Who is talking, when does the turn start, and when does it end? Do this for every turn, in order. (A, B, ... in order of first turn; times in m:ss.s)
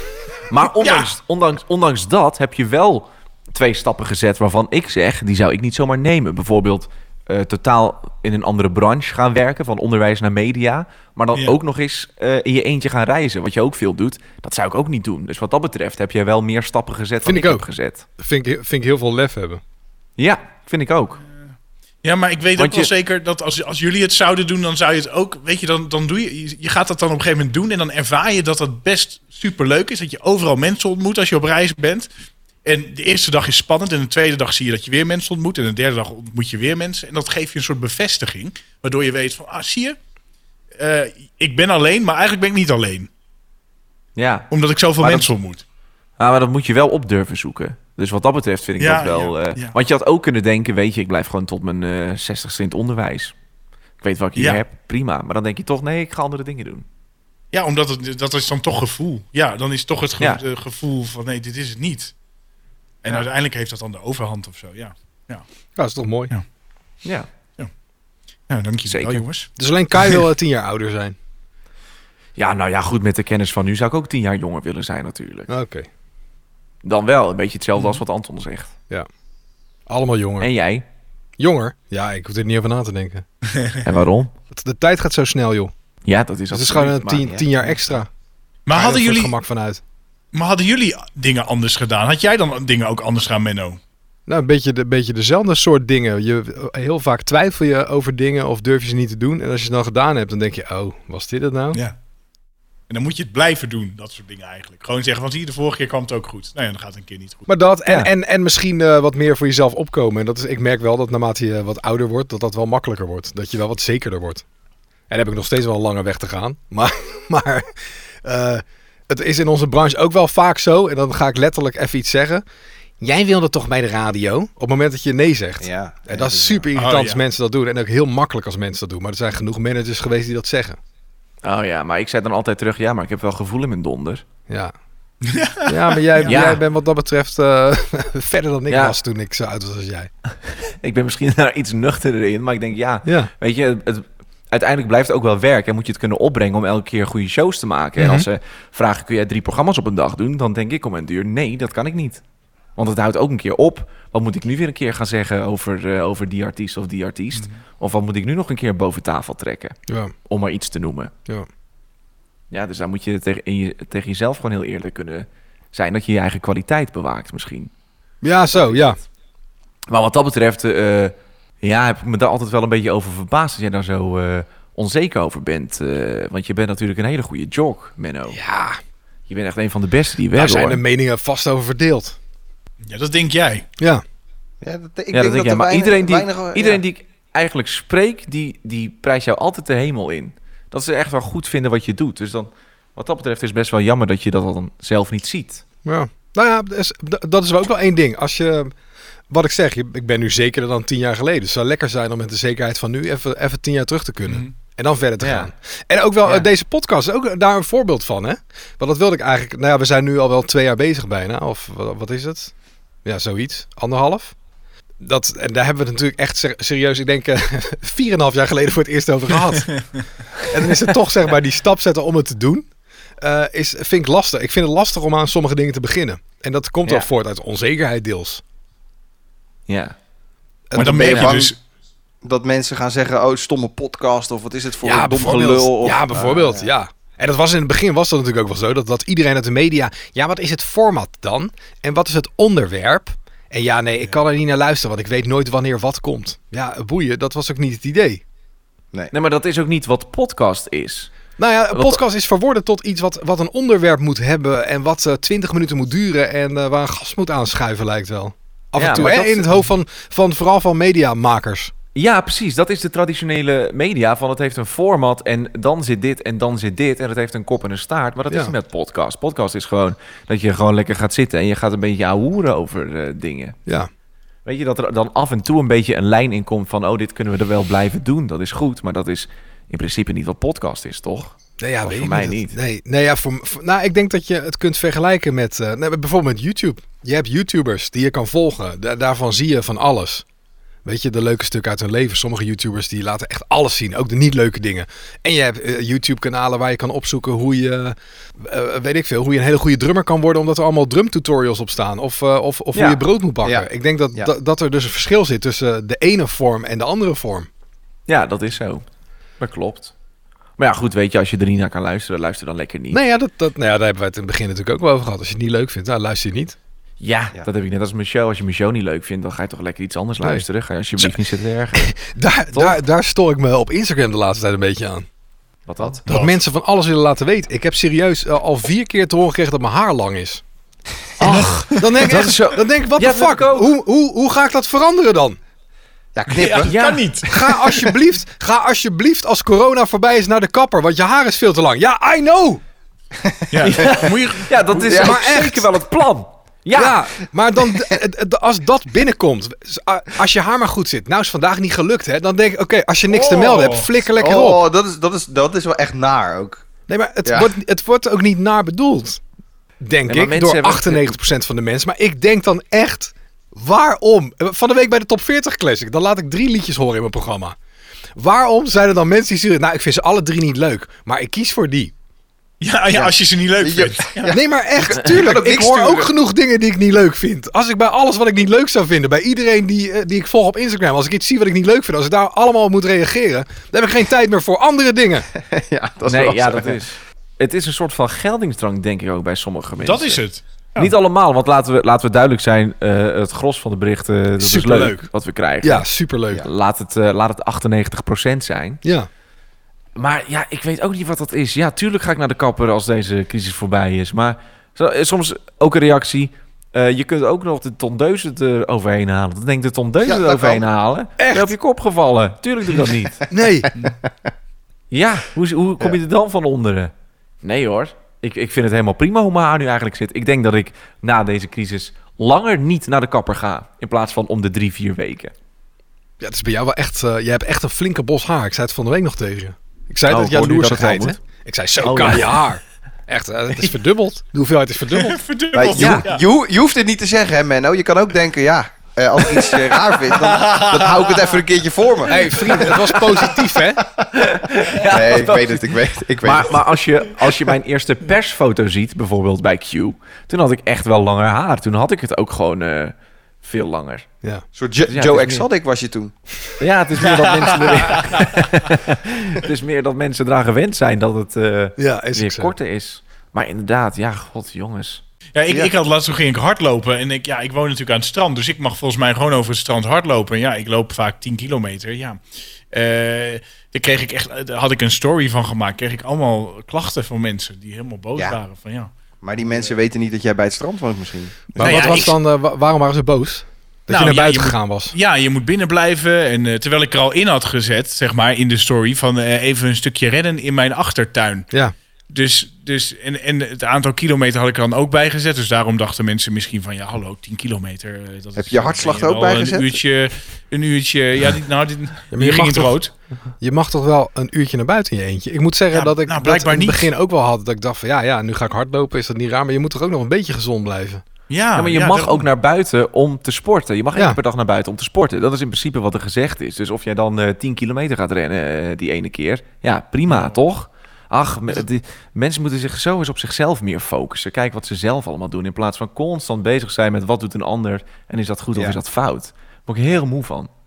0:00.5-0:18.0 A
0:00.8-0:01.1 B
0:17.2-0:17.6 C
0:18.2-0:19.6 C
0:20.2-0:21.2 A
0:22.0-0:32.1 B
0:22.6-0:22.9 A
0:32.6-0:40.0 B
0:40.8-0:43.1 B
0:44.2-0:44.5 A
0:44.5-0:45.6 B
0:45.0-0:45.3 A
0:46.2-0:53.3 A
0:48.8-0:49.7 B
0:54.0-0:56.8 A
0:57.5-1:02.1 B
1:03.0-1:05.4 B
1:05.8-1:06.3 C
1:08.5-1:10.2 B
1:08.8-1:09.2 A
1:09.6-1:11.2 C
1:12.4-1:15.5 A
1:15.5-1:15.9 C
1:16.8-1:18.7 A
1:19.9-1:20.5 C
1:20.4-1:20.8 A
1:21.4-1:23.2 C
1:23.8-1:24.3 A
1:24.5-1:25.7 C
1:26.0-1:27.4 A
1:26.5-1:28.1 C
1:28.6-1:29.3 B
1:28.7-1:29.8 C
1:30.3-1:33.8 B
1:34.3-1:41.8 C
1:42.9-1:47.4 B
1:47.5-1:54.4 C
1:55.1-1:57.7 C
1:58.2-2:02.4 C
2:03.0-2:10.8 C
2:05.6-2:06.7 D
2:06.8-2:07.2 B
2:11.4-2:14.2 A
2:15.3-2:16.4 B
2:15.6-2:20.1 C
2:16.2-2:16.6 A
2:18.7-2:19.0 A
2:20.3-2:32.2 A
2:23.0-2:23.3 C
2:28.0-2:28.3 C
2:32.8-2:41.1 A
2:39.9-2:40.1 C
2:42.5-2:47.7 A
2:48.2-2:49.0 C
2:48.5-2:48.9 A
2:49.9-2:58.4 A
2:58.3-2:58.8 C
2:59.3-3:00.8 A
3:00.3-3:02.2 C
3:02.8-3:03.6 B
3:04.6-3:06.8 D
3:05.1-3:15.6 A
3:15.8-3:18.7 C
3:19.3-3:32.5 C
3:25.2-3:25.5 A
3:33.0-3:34.4 C
3:35.0-3:39.7 C
3:40.4-3:42.7 C
3:43.2-3:48.4 C
3:49.7-3:50.0 A
3:50.7-3:51.4 C
3:50.7-3:51.5 D
3:50.7-3:51.6 B
3:52.2-3:56.7 D
3:54.8-4:08.2 C
4:09.1-4:11.1 A
4:11.4-4:21.7 C
4:11.7-4:12.0 A
4:18.7-4:19.7 A
4:21.9-4:33.6 A
4:28.3-4:28.5 C
4:34.4-4:42.6 A
4:41.6-4:50.2 C
4:50.8-5:07.5 C
5:02.7-5:03.0 A
5:03.4-5:04.3 D
5:08.1-5:08.8 A
5:09.4-5:09.9 A
5:10.6-5:13.0 A
5:12.9-5:16.6 C
5:17.0-5:22.0 A
5:21.8-5:25.1 C
5:22.5-5:22.8 A
5:25.7-5:26.0 A
5:26.0-5:30.4 C
5:31.2-5:33.7 A
5:31.2-5:35.4 C
5:36.1-5:36.7 D
5:36.3-5:37.3 B
5:36.6-5:37.2 A
5:37.3-5:42.6 C
5:43.2-5:44.0 D
5:43.5-5:44.6 B
5:43.6-5:47.0 A
5:44.8-5:45.2 D
5:44.9-5:45.7 C
5:46.7-5:54.6 C
5:53.2-5:53.8 B
5:53.2-5:53.6 D
5:54.2-5:56.6 D
5:56.9-5:59.2 C
5:57.2-5:57.5 D
5:59.8-6:07.6 C
6:00.1-6:01.2 A
6:08.2-6:11.9 C
6:12.6-6:14.4 B
6:12.9-6:16.1 D
6:14.3-6:25.3 C
6:25.4-6:26.8 D
6:26.0-6:30.2 A
6:29.8-6:30.9 B
6:30.8-6:38.8 A
6:34.4-6:35.1 C
6:35.6-6:36.5 C
6:40.0-6:53.2 A
6:50.0-6:50.6 D
6:51.2-6:51.5 C
6:53.3-6:53.7 C
6:54.9-7:05.3 A
7:06.2-7:15.2 C
7:10.1-7:11.2 A
7:11.8-7:12.4 A
7:14.9-7:16.2 B
7:15.5-7:26.7 D
7:15.8-7:16.0 C
7:20.1-7:21.3 B
7:22.1-7:23.8 C
7:24.1-7:34.1 A
7:34.6-7:36.1 D
7:34.9-7:35.5 A
7:36.6-7:45.0 A
7:37.0-7:38.2 B
7:41.8-7:42.5 C
7:45.3-7:52.2 B
7:52.7-7:58.9 B
7:59.2-8:02.1 D
8:01.5-8:04.9 C
8:01.6-8:02.2 B
8:03.9-8:11.5 B
8:12.1-8:22.9 B
8:18.4-8:19.8 D
8:22.1-8:22.8 C
8:23.4-8:31.0 C
8:25.7-8:26.9 B
8:31.3-8:32.3 B
8:31.5-8:50.5 A
8:33.9-8:34.2 C
8:40.1-8:40.4 B